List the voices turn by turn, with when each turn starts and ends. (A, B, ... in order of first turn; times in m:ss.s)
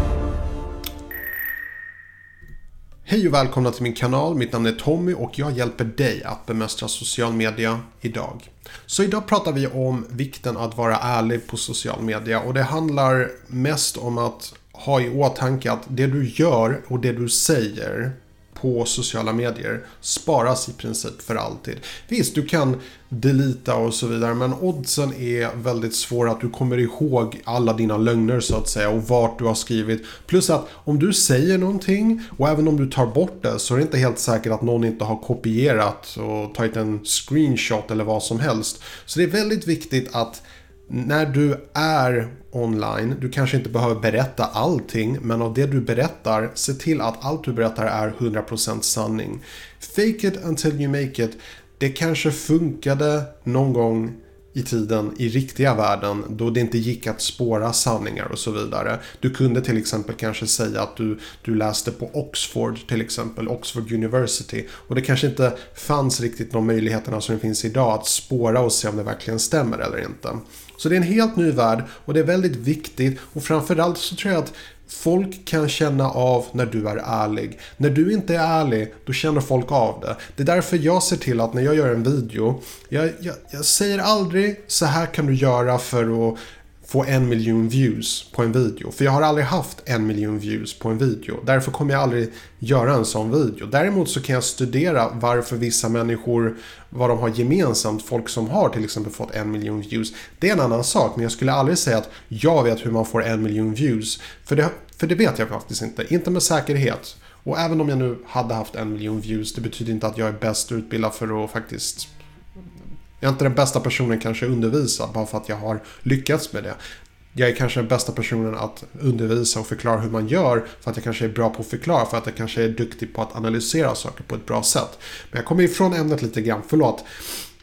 0:03.1-1:52.1 A
1:53.2-1:56.8 A
1:57.4-2:07.0 A